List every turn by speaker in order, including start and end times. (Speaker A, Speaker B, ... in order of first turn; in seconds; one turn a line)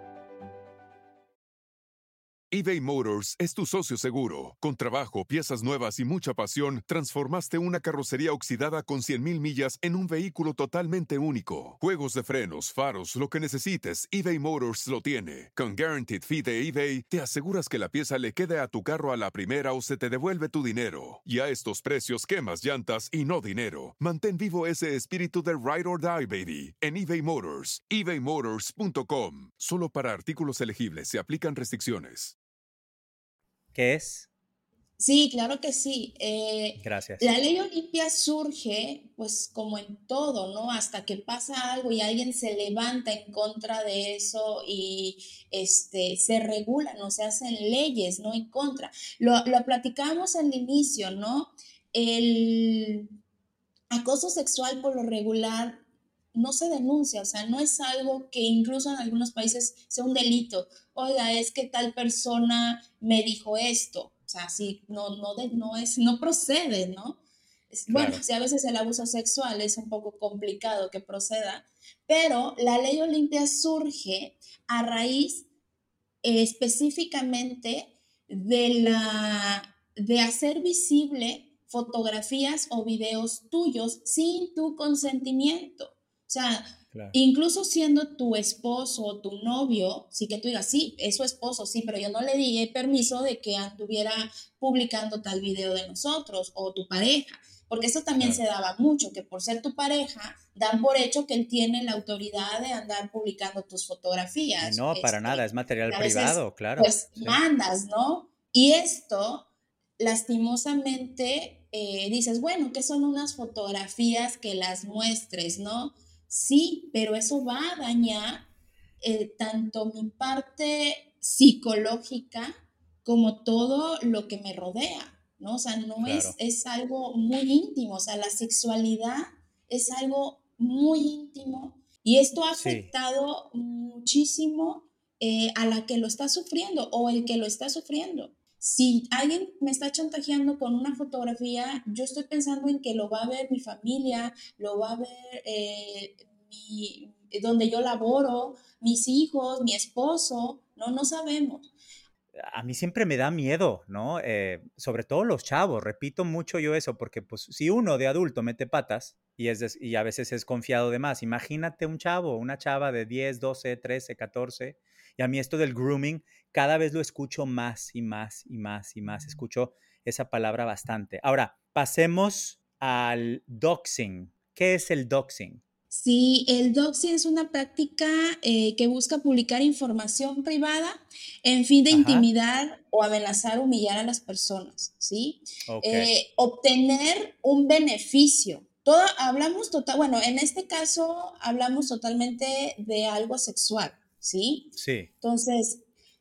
Speaker A: 2.5-32.4
Speaker B: 33.7-34.3
Speaker C: 35.0-53.1
Speaker B: 36.8-37.4
Speaker C: 53.9-55.8
Speaker C: 56.3-75.5
Speaker B: 67.9-68.2
Speaker C: 76.2-109.5
Speaker B: 104.6-107.4
Speaker C: 110.0-118.5
Speaker C: 119.0-151.7
Speaker B: 126.0-126.4
Speaker B: 132.6-132.9
Speaker B: 152.4-175.6
Speaker C: 175.9-195.8
Speaker B: 181.9-182.3
Speaker B: 185.7-186.1
Speaker B: 194.8-195.1